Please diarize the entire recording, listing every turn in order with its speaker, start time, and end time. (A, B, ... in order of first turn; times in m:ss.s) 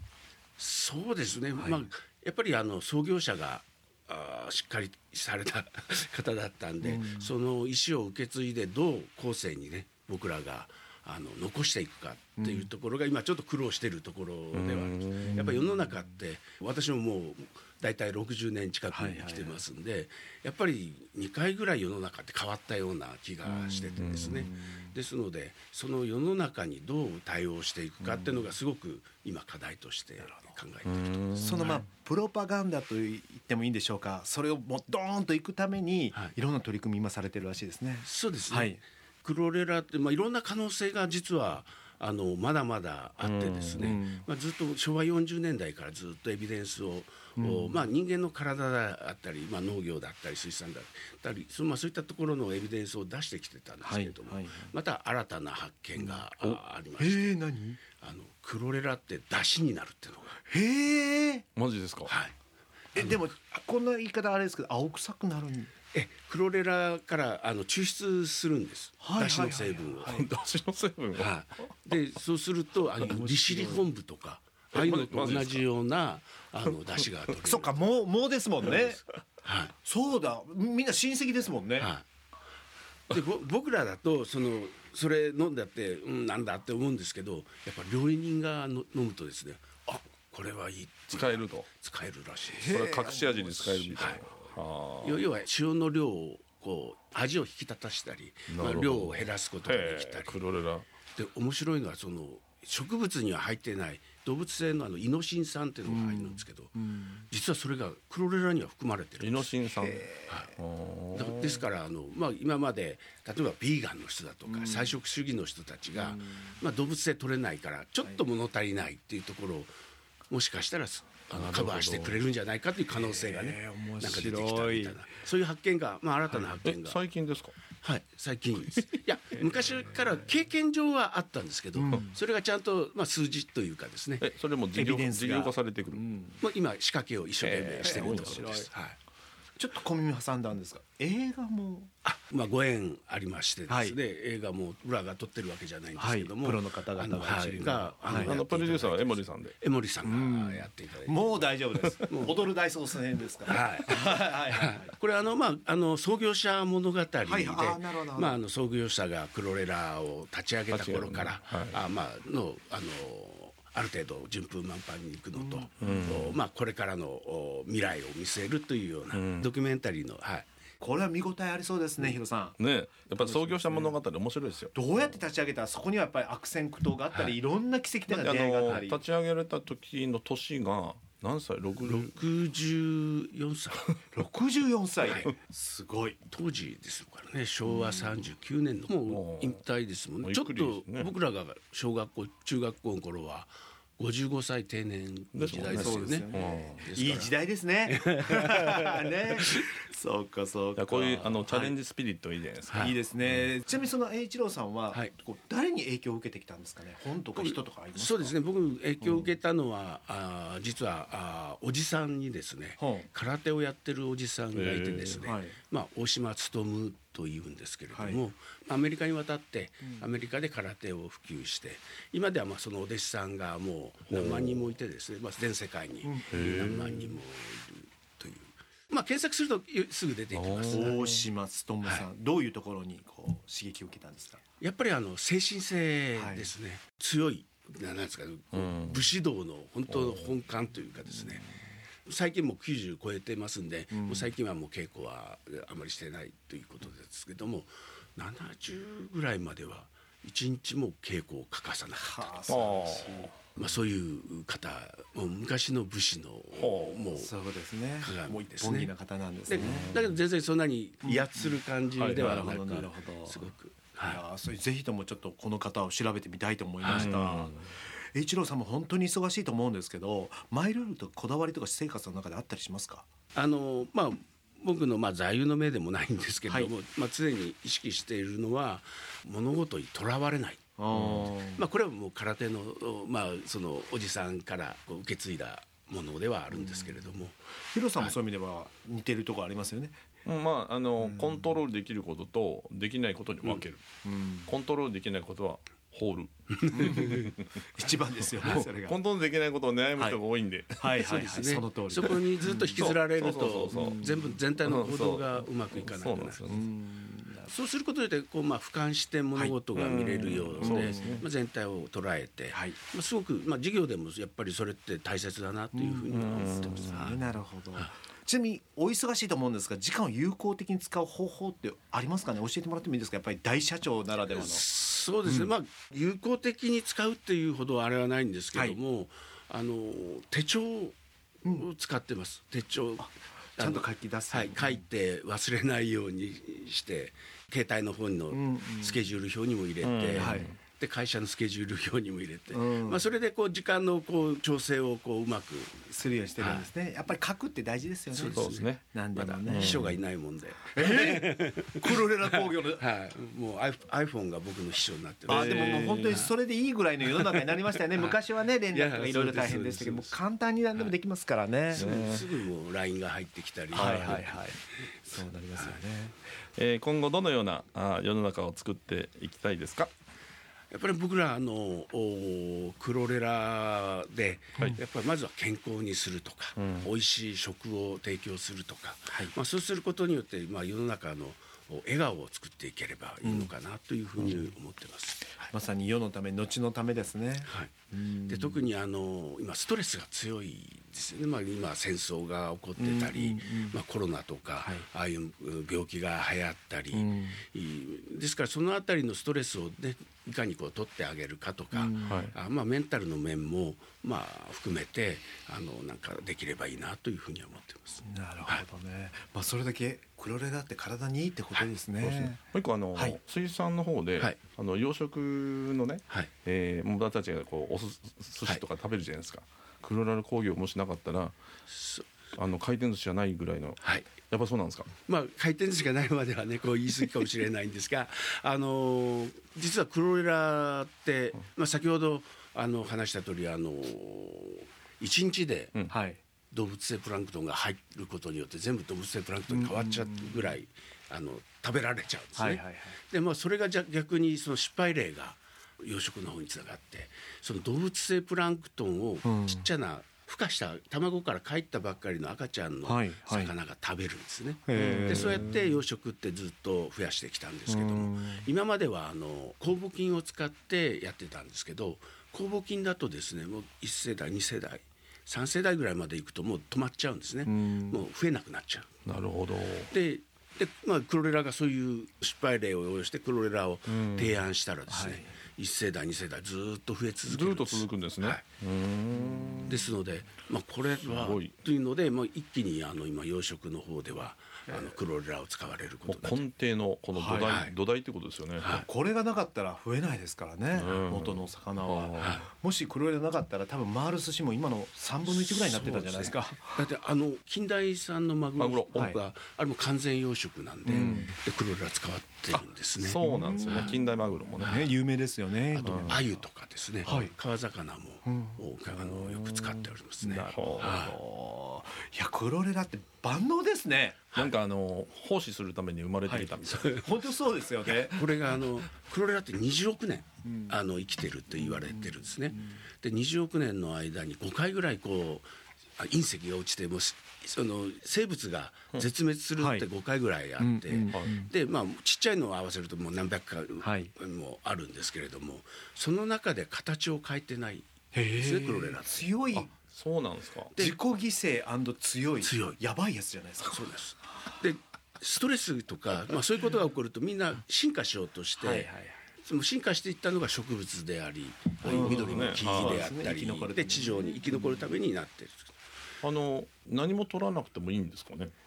0:00.6-0:31.1 A
0:01.6-0:01.8 B
0:06.8-0:07.3 B
0:12.4-0:12.7 B
0:14.5-0:15.5 C
0:15.2-0:16.0 B
0:18.9-0:19.6 B
0:23.4-0:25.0 B
0:24.0-0:24.5 C
0:28.0-0:28.5 B
0:30.2-0:30.6 B
0:30.8-0:31.8 C
0:31.4-0:38.8 B
0:38.0-0:57.4 A
0:43.2-0:44.0 C
0:43.8-0:44.2 B
0:47.4-0:47.8 B
0:53.8-0:54.7 B
0:56.0-0:56.2 B
0:57.0-0:57.8 B
0:58.0-1:00.4 A
1:00.5-1:01.4 B
1:01.6-1:02.1 C
1:02.1-1:02.3 A
1:02.9-1:05.7 B
1:05.9-1:10.2 A
1:09.0-1:10.3 B
1:10.0-1:11.7 C
1:11.2-1:17.8 A
1:13.0-1:13.3 C
1:13.0-1:13.9 B
1:14.7-1:15.6 C
1:17.4-1:19.0 B
1:18.6-1:19.7 A
1:19.8-1:21.9 B
1:21.8-1:22.0 A
1:23.1-1:32.9 A
1:31.1-1:31.7 C
1:32.4-1:34.2 B
1:32.7-1:35.3 C
1:34.0-1:34.2 A
1:35.0-1:40.5 A
1:38.5-1:40.9 C
1:41.1-1:46.8 A
1:45.9-1:47.3 B
1:47.3-1:49.5 A
1:49.2-1:51.6 C
1:49.8-1:50.5 B
1:51.1-1:59.7 A
1:54.4-1:55.0 B
1:56.0-1:56.6 B
2:00.3-2:07.0 A
2:01.3-2:02.2 C
2:02.9-2:05.0 B
2:06.3-2:06.5 B
2:06.6-2:07.6 C
2:07.8-2:14.2 A
2:09.8-2:10.1 B
2:11.8-2:12.2 B
2:14.2-2:16.0 C
2:14.7-2:16.4 B
2:16.4-2:19.0 A
2:17.4-2:18.6 C
2:17.8-2:18.7 B
2:19.6-2:21.9 B
2:22.0-2:31.5 A
2:23.7-2:24.0 B
2:26.0-2:28.4 B
2:28.1-2:29.6 C
2:30.0-2:34.9 B
2:32.1-2:32.5 A
2:33.4-2:50.5 A
2:37.2-2:38.4 B
2:40.7-2:41.8 C
2:45.4-2:46.3 B
2:45.8-2:46.4 C
2:49.1-2:49.5 C
2:50.8-2:52.6 B
2:52.6-2:54.9 C
2:53.1-2:54.0 B
2:54.7-2:59.0 B
2:58.1-3:02.1 C
3:01.8-3:04.0 A
3:04.1-3:06.2 B
3:05.0-3:05.3 A
3:06.3-3:16.3 A
3:07.7-3:08.3 B
3:09.0-3:09.6 C
3:10.2-3:11.1 C
3:15.3-3:16.8 C
3:15.7-3:21.8 B
3:16.8-3:17.3 A
3:17.9-3:19.7 A
3:20.8-3:23.4 C
3:22.7-3:23.0 A
3:22.8-3:28.4 B
3:27.4-3:51.0 A
3:29.0-3:29.3 B
3:32.8-3:33.1 B
3:34.5-3:35.3 C
3:35.2-3:35.6 B
3:37.9-3:38.2 B
3:44.1-3:44.7 C
3:46.0-3:46.8 B
3:46.3-3:47.2 C
3:50.3-3:51.2 C
3:50.7-3:54.4 B
3:51.8-3:52.1 A
3:54.6-4:01.5 A
3:56.2-3:56.5 B
3:58.5-3:59.1 C
3:59.9-4:00.3 C
4:02.0-4:12.4 A
4:03.9-4:04.3 B
4:12.0-4:13.4 B
4:12.5-4:13.6 C
4:13.6-4:17.3 A
4:16.6-4:17.0 C
4:17.1-4:19.9 B
4:18.0-4:18.9 A
4:19.5-4:24.2 A
4:19.6-4:20.2 C
4:21.0-4:21.6 B
4:22.0-4:22.4 C
4:22.1-4:23.5 B
4:24.0-4:27.6 B
4:26.8-4:27.1 A
4:26.9-4:27.7 C
4:28.1-4:33.1 B
4:33.3-4:47.4 A
4:36.5-4:36.7 B
4:40.8-4:41.6 B
4:46.5-4:47.2 B
4:47.7-4:50.0 B
4:50.3-4:53.8 C
4:51.0-4:51.6 B
4:54.0-4:54.5 B
4:54.5-4:57.7 C
4:56.6-4:57.3 A
4:56.8-4:59.0 B
4:58.4-5:01.4 C
5:00.8-5:02.9 B
5:00.9-5:06.5 A
5:02.0-5:04.0 C
5:03.7-5:04.4 B
5:04.6-5:06.6 C
5:06.4-5:07.5 B
5:07.5-5:17.2 A
5:09.7-5:11.3 C
5:10.6-5:11.2 B
5:12.5-5:12.8 B
5:15.7-5:16.1 B
5:16.1-5:17.2 C
5:16.9-5:24.6 B
5:24.3-5:45.8 A
5:28.5-5:28.8 B
5:33.0-5:34.8 B
5:38.3-5:39.0 B
5:39.8-5:40.6 C
5:40.2-5:40.5 B
5:42.5-5:43.0 B
5:45.9-5:49.9 B
5:46.4-5:46.7 A
5:48.1-5:56.4 A
5:48.3-5:48.9 C
5:49.5-5:50.0 C
5:50.7-5:52.8 B
5:55.3-6:01.9 B
5:55.3-5:56.3 C
5:57.0-6:00.2 A
6:01.7-6:02.3 C
6:01.7-6:04.5 A
6:03.7-6:04.2 C
6:03.7-6:06.2 B
6:06.6-6:09.9 C
6:10.7-6:25.5 A
6:16.6-6:16.9 C
6:23.2-6:23.5 B
6:25.5-6:28.7 B
6:27.4-6:27.7 A
6:28.3-6:48.6 A
6:32.8-6:33.8 B
6:36.9-6:37.4 B
6:41.7-6:42.3 B
6:42.1-6:42.4 C
6:48.0-6:52.4 B
6:52.0-7:01.4 C
6:52.9-6:53.2 B
7:01.7-7:02.1 A
7:02.4-7:04.9 C
7:03.8-7:04.1 A
7:05.1-7:15.8 A
7:15.9-7:16.2 B
7:16.5-7:48.9 A
7:19.5-7:20.5 B
7:22.4-7:23.0 B
7:29.2-7:29.7 B
7:32.8-7:33.5 B
7:34.7-7:35.5 B
7:34.8-7:35.8 C
7:37.7-7:38.5 B
7:47.4-7:48.1 B
7:49.1-7:49.9 C
7:49.9-7:58.4 A
7:53.9-7:54.4 C
7:54.9-7:55.3 B
7:57.3-7:59.9 C
7:59.2-7:59.7 B
7:59.7-8:06.5 A
8:01.1-8:01.6 C
8:06.1-8:08.8 C
8:07.2-8:07.6 B
8:07.4-8:07.8 A
8:08.6-8:08.9 A
8:08.7-8:16.8 B
8:10.7-8:12.4 C
8:12.2-8:12.5 A
8:15.2-8:23.9 A
8:18.6-8:19.2 C
8:20.9-8:21.3 B
8:20.9-8:21.3 C
8:23.0-8:24.9 C
8:23.2-8:24.0 B
8:24.6-8:25.0 A
8:24.6-8:26.4 B
8:25.7-8:31.2 A
8:25.8-8:26.2 C
8:27.0-8:27.3 B
8:28.2-8:28.6 B
8:28.9-8:31.2 C
8:30.2-8:34.2 B
8:34.4-8:37.0 C
8:36.3-8:38.3 B
8:36.6-8:37.1 A
8:37.8-8:59.3 A
8:40.4-8:40.8 B
8:41.6-8:42.8 B
8:49.6-8:49.9 B
8:50.6-8:51.5 B
8:53.8-8:54.1 B
8:58.1-8:59.7 B
8:59.5-9:00.8 C
9:00.8-9:03.8 B
9:02.4-9:02.8 A
9:03.6-9:15.7 A
9:08.6-9:09.2 B
9:11.8-9:14.9 B
9:11.8-9:13.1 C
9:16.2-9:18.5 C